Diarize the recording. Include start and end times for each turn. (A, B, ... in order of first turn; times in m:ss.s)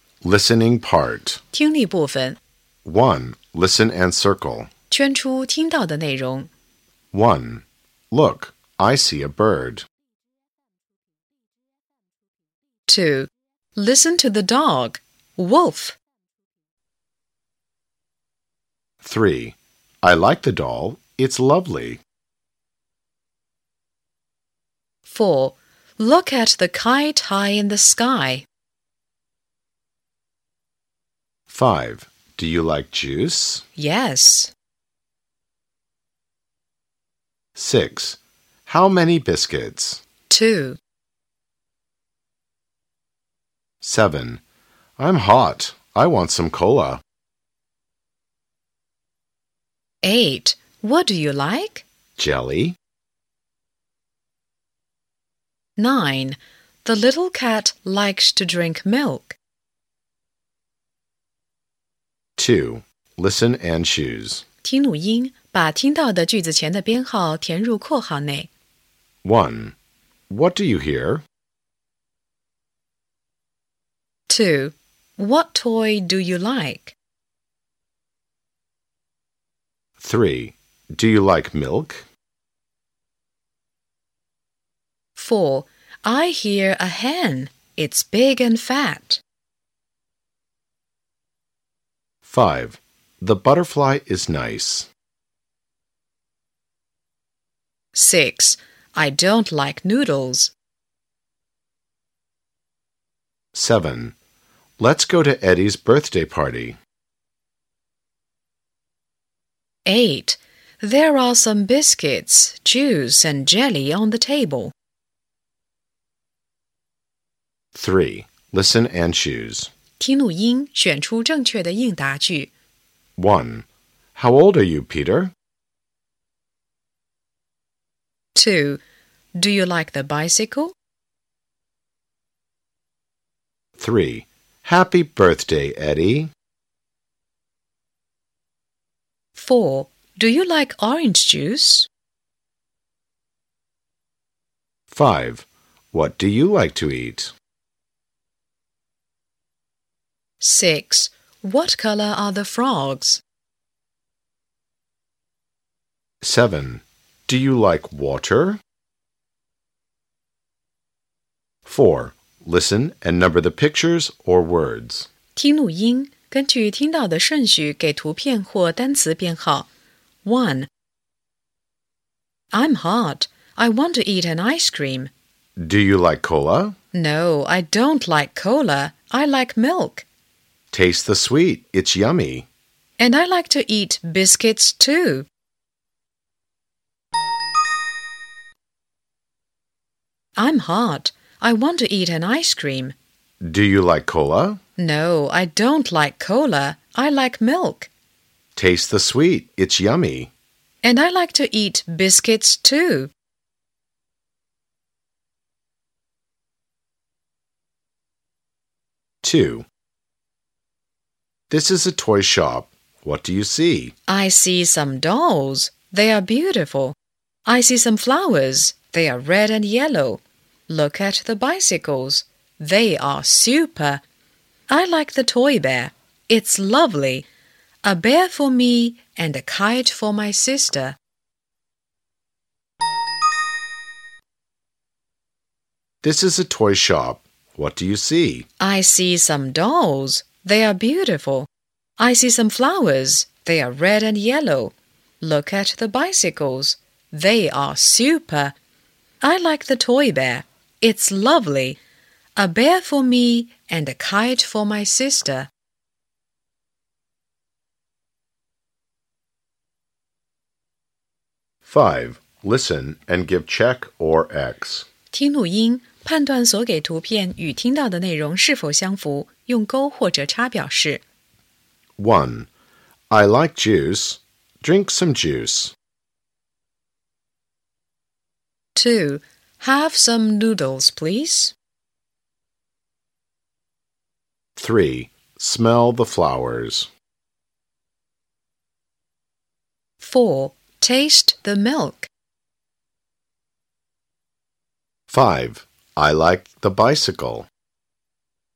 0:00.2-0:01.4 A
0:01.5-0:02.4 B
0:02.8-0:04.7 A
0:04.9-0:06.5 B
0:07.1-0:09.8 A
0:12.9-0:16.0 B
0:19.0-0:22.0 A
0:25.0-0:28.4 B
0:31.5-0:33.6 A
0:33.8-0:34.5 B
0:37.6-0:40.0 A
0:40.3-0:40.8 B
0:43.8-0:44.4 A
0:45.0-0:47.0 A
0:50.0-0:51.8 B
0:52.2-0:52.8 A
0:55.8-0:59.4 B
1:02.4-1:04.4 A
1:04.6-1:08.5 B
1:09.2-1:09.8 A
1:10.3-1:11.2 A
1:14.3-1:17.0 B
1:20.0-1:22.0 A
1:25.1-1:29.2 B
1:32.2-1:34.9 A
1:37.9-1:40.5 B
1:43.5-1:44.1 A
1:44.8-1:46.8 A
1:49.8-1:54.7 B
1:57.7-1:59.7 A
2:00.0-2:02.5 B
2:03.2-2:05.3 A
2:08.3-2:08.8 B
2:09.4-2:10.7 B
2:13.8-2:16.3 A
2:19.4-2:21.9 B
2:24.9-2:27.3 A
2:30.4-2:33.2 B
2:36.2-2:38.6 A
2:41.6-2:45.1 A
2:45.3-2:49.7 B
2:50.2-2:50.7 B
2:52.5-2:55.1 B
2:55.6-2:56.7 A
2:56.9-3:00.0 B
3:00.7-3:02.5 A
3:03.0-3:05.3 B
3:10.4-3:12.9 B
3:13.4-3:14.6 A
3:14.8-3:17.9 B
3:18.6-3:20.3 A
3:20.8-3:23.1 B
3:29.2-3:29.7 A
3:31.5-3:33.9 A
3:34.1-3:44.0 B
3:44.7-3:47.2 B
3:47.8-3:51.0 B
3:56.0-3:58.4 A
3:58.6-4:01.5 B
4:02.0-4:08.6 B
4:09.2-4:11.8 B
4:12.4-4:15.5 B
4:21.6-4:24.9 A
4:25.1-4:31.0 B
4:32.0-4:32.5 A
4:33.1-4:35.7 A
4:38.7-4:41.5 B
4:44.6-4:46.9 A
4:50.0-4:52.1 B
4:55.1-4:57.5 A